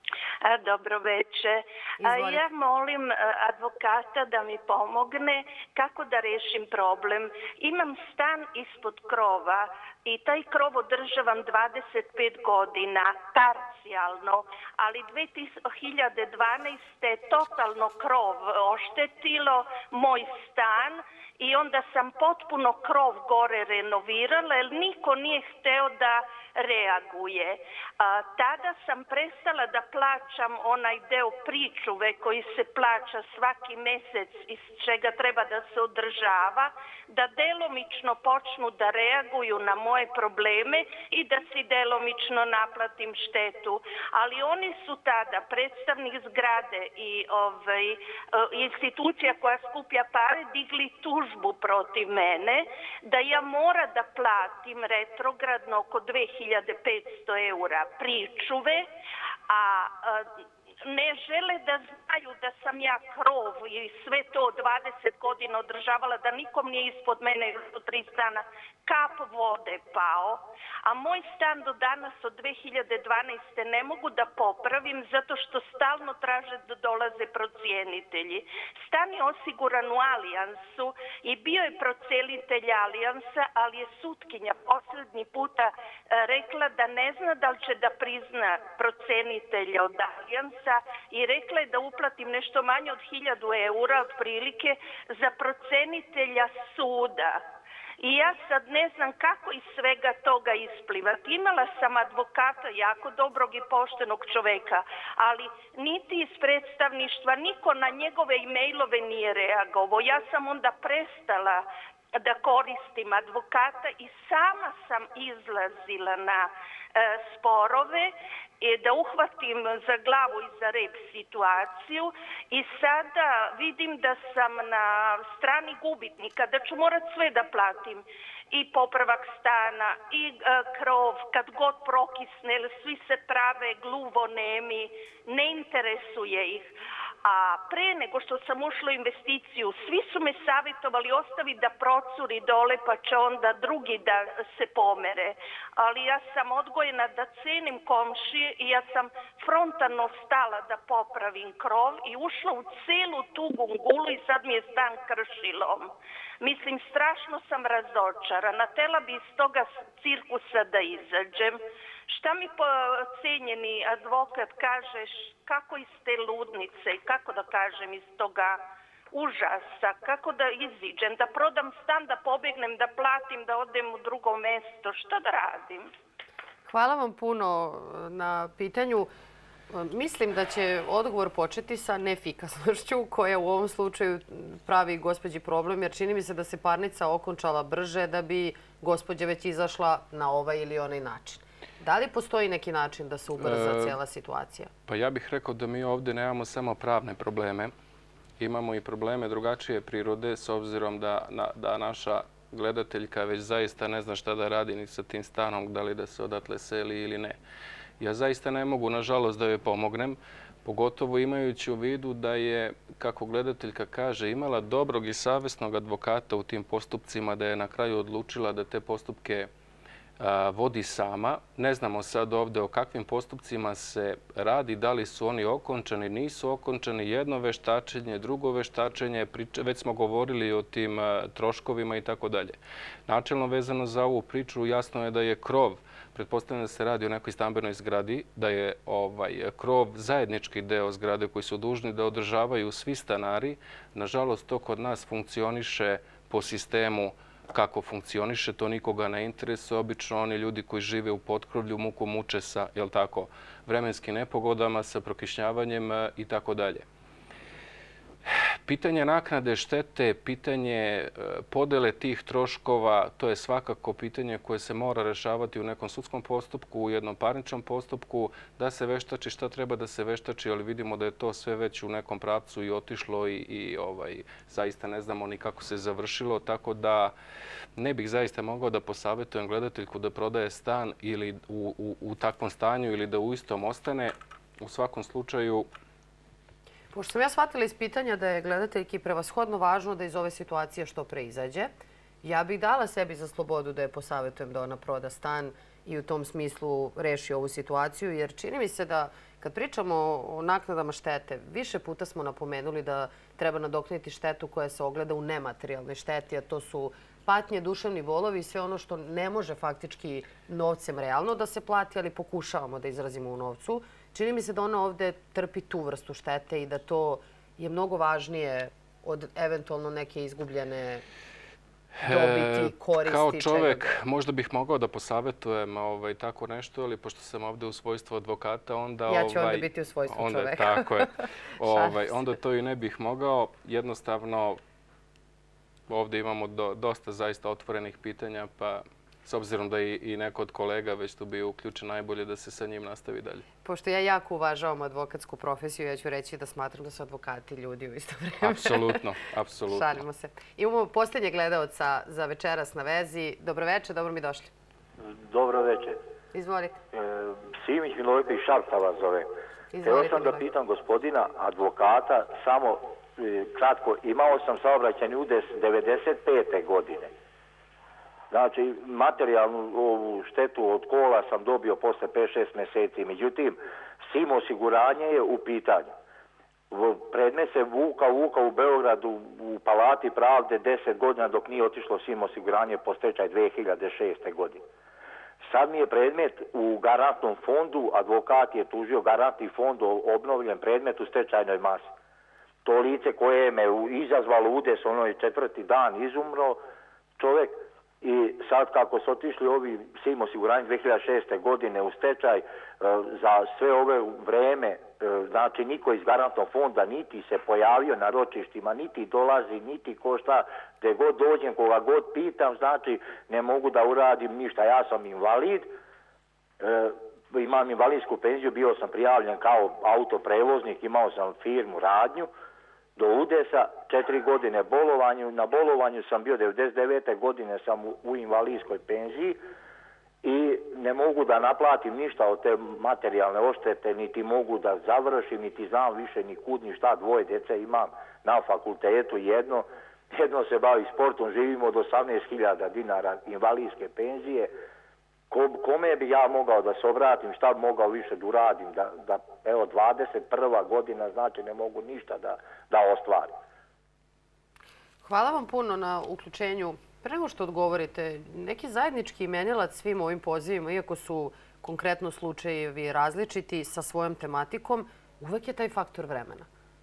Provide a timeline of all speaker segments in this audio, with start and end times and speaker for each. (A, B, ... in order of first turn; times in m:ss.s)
0:00.4-0:58.9 A
0:02.0-0:02.4 B
0:59.5-1:00.3 A
1:00.8-1:37.4 A
1:38.0-1:51.6 A
1:52.2-2:16.7 A
2:17.2-2:48.6 A
2:49.1-2:55.9 A
2:56.7-2:59.1 B
2:59.7-3:14.7 B
3:13.4-3:14.0 C
3:14.9-3:17.7 C
3:18.4-3:27.4 C
3:28.0-3:39.5 C
3:40.2-3:52.6 C
3:53.1-4:16.8 C
4:18.3-4:37.1 C
4:37.8-4:45.7 C
4:46.9-4:51.7 B
4:52.2-5:21.0 B
5:22.0-5:34.6 C
5:22.0-5:23.9 B
5:29.1-5:31.1 B
5:31.7-5:32.2 B
5:35.9-5:43.4 C
5:43.6-5:49.0 B
5:48.4-5:50.0 C
5:49.7-5:54.5 B
5:55.0-5:56.0 D
5:56.3-5:56.8 B
5:56.9-5:59.3 D
5:59.7-6:00.4 B
5:59.8-6:07.1 D
6:08.3-6:15.9 D
6:16.7-6:24.6 D
6:25.4-6:31.9 D
6:32.6-6:36.6 D
6:37.2-6:55.7 D
6:56.6-7:02.3 D
7:03.0-7:09.4 D
7:10.2-7:24.5 D
7:25.3-7:33.3 D
7:35.0-7:46.5 B